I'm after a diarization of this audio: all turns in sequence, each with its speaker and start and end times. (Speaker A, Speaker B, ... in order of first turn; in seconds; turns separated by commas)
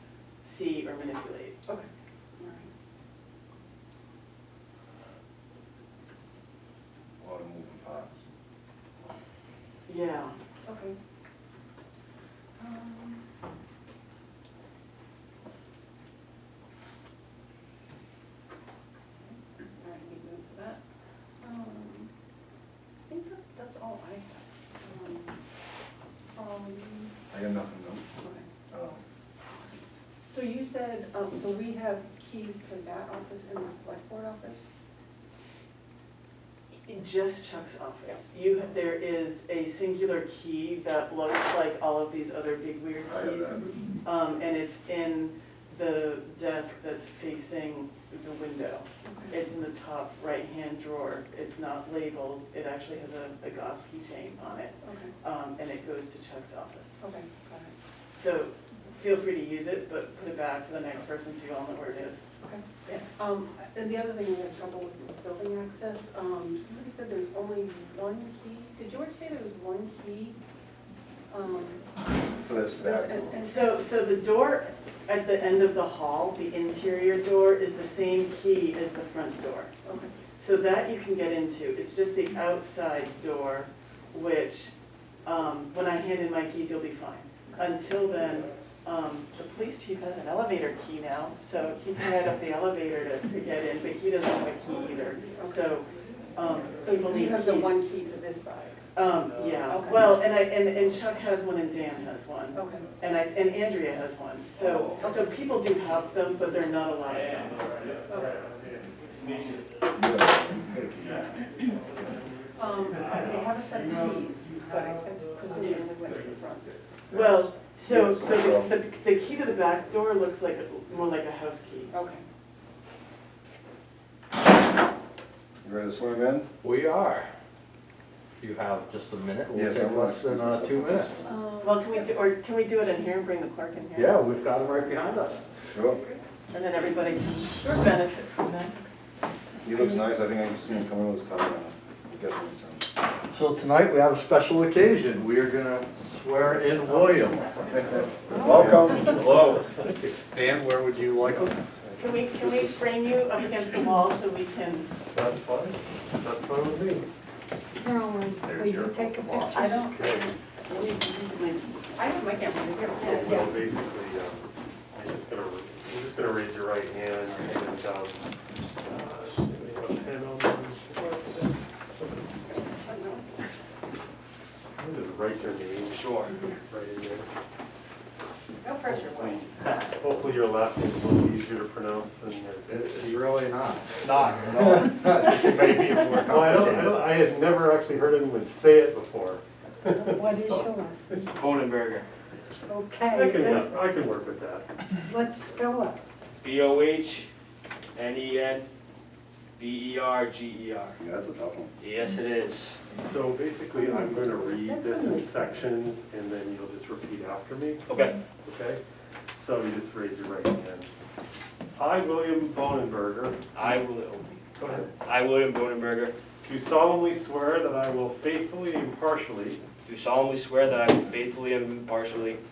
Speaker A: 0.4-1.6, Speaker B: 2.4-2.7, Speaker C: 7.2-8.3, Speaker A: 9.9-10.3, Speaker B: 10.7-11.0, Speaker B: 12.6-13.2, Speaker B: 19.2-20.8, Speaker B: 21.4-22.1, Speaker B: 23.1-25.4, Speaker B: 26.3-27.1, Speaker C: 27.3-28.0, Speaker B: 28.2-28.5, Speaker C: 28.7-29.0, Speaker B: 30.3-34.7, Speaker A: 36.9-57.0, Speaker C: 43.1-43.6, Speaker B: 49.0-49.3, Speaker B: 54.8-55.1, Speaker B: 57.0-57.7, Speaker A: 58.1-62.2, Speaker A: 62.8-63.1, Speaker B: 63.1-70.4, Speaker B: 71.3-71.8, Speaker C: 72.4-73.4, Speaker B: 72.8-73.8, Speaker A: 73.4-79.7, Speaker B: 79.8-80.1, Speaker A: 80.4-84.7, Speaker A: 85.2-97.8, Speaker B: 95.1-95.9, Speaker B: 96.7-98.8, Speaker A: 98.9-107.9, Speaker B: 99.6-100.0, Speaker B: 102.5-102.9, Speaker D: 108.1-109.6, Speaker E: 109.2-109.6, Speaker C: 109.9-111.2, Speaker D: 111.2-112.0, Speaker B: 112.5-116.7, Speaker D: 112.9-116.4, Speaker C: 117.1-118.7, Speaker A: 117.1-121.9, Speaker B: 121.9-122.2, Speaker C: 125.6-126.5, Speaker F: 126.6-127.3, Speaker F: 128.4-131.2, Speaker C: 129.5-131.3, Speaker B: 131.3-132.0, Speaker A: 131.6-134.2, Speaker F: 133.9-135.4, Speaker C: 135.7-136.0, Speaker A: 136.5-138.8, Speaker C: 139.6-142.9, Speaker F: 143.3-147.5, Speaker C: 147.6-149.2, Speaker D: 148.3-149.3, Speaker E: 149.1-149.7, Speaker F: 149.9-151.6, Speaker D: 151.3-152.0, Speaker A: 152.0-154.9, Speaker D: 155.1-157.1, Speaker G: 157.8-159.8, Speaker D: 158.4-160.3, Speaker B: 159.6-160.3, Speaker A: 160.7-161.6, Speaker B: 161.0-161.3, Speaker B: 161.9-163.5, Speaker D: 162.9-168.2, Speaker A: 163.0-163.3, Speaker D: 168.8-172.1, Speaker B: 172.4-173.4, Speaker D: 174.8-177.3, Speaker E: 175.9-176.3, Speaker B: 178.6-179.5, Speaker D: 178.9-179.4, Speaker D: 180.0-183.4, Speaker F: 182.7-187.0, Speaker D: 184.2-185.2, Speaker D: 186.1-191.2, Speaker G: 189.9-191.3, Speaker E: 191.3-192.1, Speaker G: 192.7-193.7, Speaker D: 193.1-194.7, Speaker G: 195.1-196.0, Speaker E: 196.4-197.3, Speaker E: 197.9-198.7, Speaker E: 199.6-201.0, Speaker C: 201.0-201.7, Speaker E: 201.8-202.8, Speaker D: 203.0-207.8, Speaker B: 203.8-205.3, Speaker G: 204.0-205.2, Speaker E: 207.9-208.2, Speaker D: 208.4-208.8, Speaker D: 209.3-210.9, Speaker D: 211.8-213.8, Speaker E: 213.5-216.1, Speaker D: 214.6-214.9, Speaker D: 216.4-219.6, Speaker E: 219.8-222.4